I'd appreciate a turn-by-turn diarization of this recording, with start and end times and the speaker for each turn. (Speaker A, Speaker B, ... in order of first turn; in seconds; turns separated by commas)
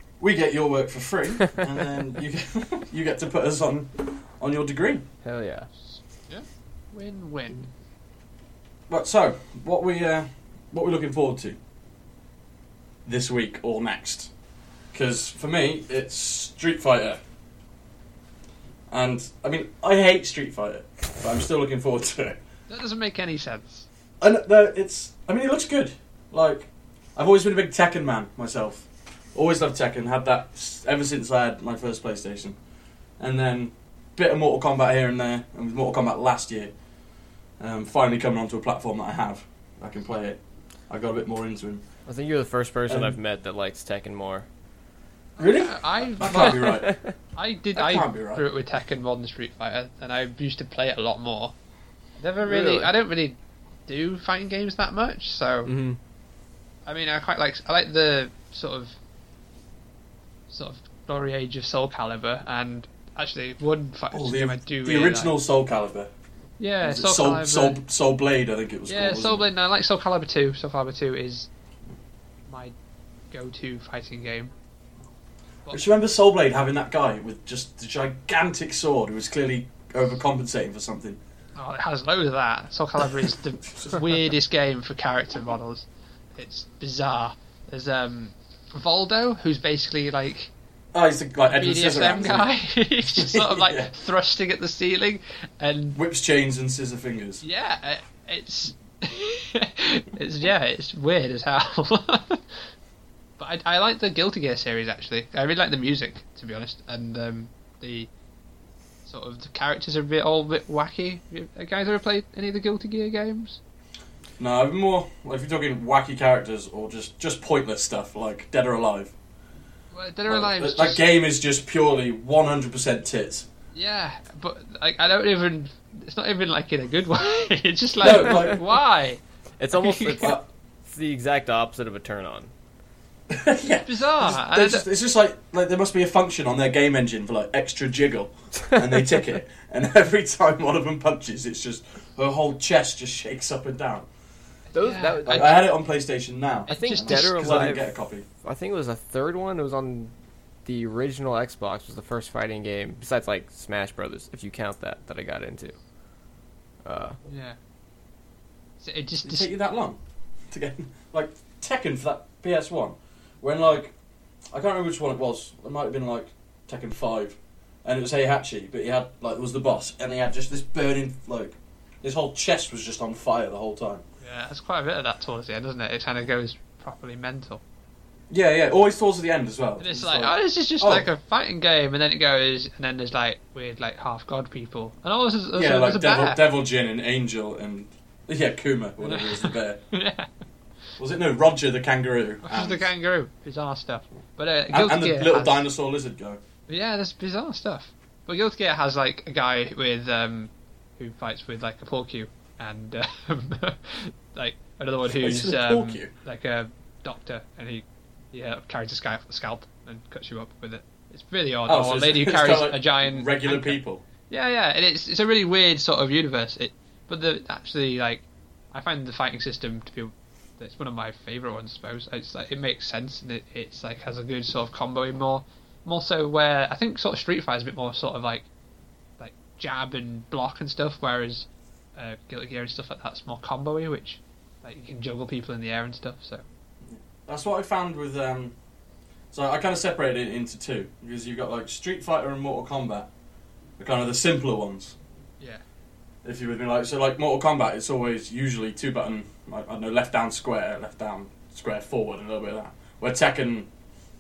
Speaker A: 0.2-5.0, Speaker B: 5.2-5.7, Speaker C: 5.9-7.7, Speaker A: 8.9-11.6, Speaker A: 13.1-14.3, Speaker A: 14.9-17.2, Speaker A: 18.9-22.4, Speaker C: 22.7-23.9, Speaker A: 24.2-32.6, Speaker A: 33.2-36.7, Speaker A: 37.6-41.9, Speaker B: 42.1-44.5, Speaker A: 42.9-43.2, Speaker C: 45.4-46.8, Speaker A: 45.4-47.0, Speaker B: 46.2-47.1, Speaker C: 47.4-51.5, Speaker A: 47.8-48.4, Speaker C: 52.2-55.7, Speaker B: 52.5-52.9, Speaker B: 55.7-56.0, Speaker C: 56.9-59.0, Speaker C: 60.5-65.3, Speaker A: 64.1-66.1, Speaker C: 66.6-67.8, Speaker A: 66.8-69.5, Speaker C: 68.9-71.5, Speaker C: 72.5-72.8, Speaker C: 73.3-74.5, Speaker A: 75.7-81.2, Speaker C: 81.6-90.5, Speaker A: 90.9-93.9, Speaker C: 91.5-96.0, Speaker A: 96.0-97.4, Speaker C: 97.4-102.7, Speaker C: 103.4-108.1, Speaker C: 109.1-113.6, Speaker A: 114.4-119.1, Speaker C: 119.9-121.0, Speaker A: 120.3-123.5, Speaker C: 123.7-129.2, Speaker A: 128.0-128.6, Speaker B: 129.6-132.5, Speaker C: 129.8-130.3, Speaker A: 133.3-144.1, Speaker C: 133.9-134.8, Speaker B: 144.7-145.6, Speaker C: 144.8-145.2, Speaker A: 145.2-148.2, Speaker C: 146.7-147.2, Speaker B: 146.7-150.1, Speaker B: 150.7-155.8, Speaker B: 156.8-157.2, Speaker C: 157.3-157.6, Speaker C: 158.8-159.5, Speaker A: 159.2-163.9, Speaker A: 164.5-174.0, Speaker C: 174.2-177.6, Speaker A: 178.3-181.1, Speaker C: 179.8-186.4, Speaker A: 185.6-189.8, Speaker C: 189.0-190.3, Speaker A: 191.0-192.9, Speaker C: 192.4-195.6, Speaker A: 194.7-196.4, Speaker C: 196.7-228.5, Speaker A: 205.1-206.1, Speaker A: 211.7-214.0, Speaker C: 229.2-236.4, Speaker A: 236.8-238.6, Speaker A: 239.3-243.1, Speaker A: 243.8-245.0, Speaker A: 246.2-253.7